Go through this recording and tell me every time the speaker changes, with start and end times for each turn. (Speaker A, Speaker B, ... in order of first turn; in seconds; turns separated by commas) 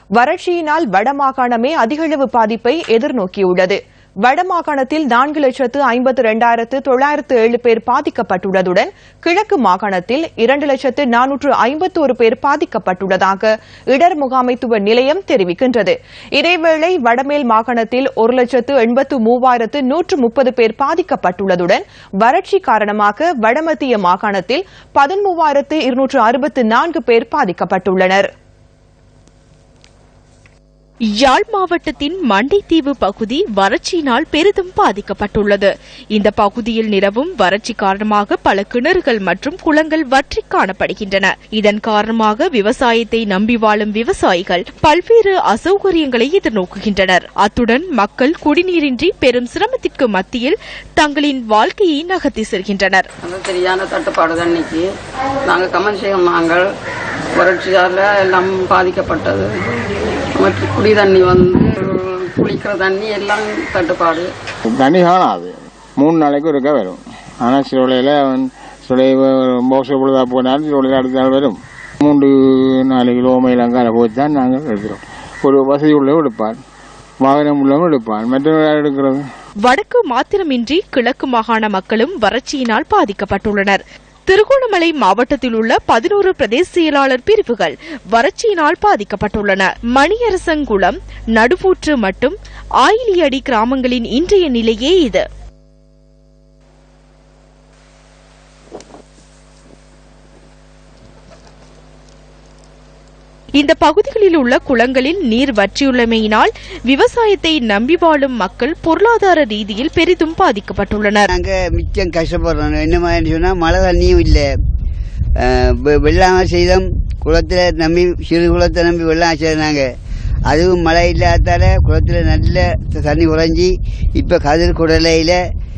Speaker A: 0.2-28.3, Speaker B: 31.2-53.1, Speaker C: 53.2-54.9, Speaker C: 55.5-56.7, Speaker C: 57.4-59.6, Speaker C: 60.4-64.3, Speaker D: 64.7-76.6, Speaker D: 77.2-79.3, Speaker B: 79.6-95.3, Speaker B: 103.6-111.3, Speaker E: 111.3-114.5, Speaker E: 115.4-119.9, Speaker E: 120.5-125.4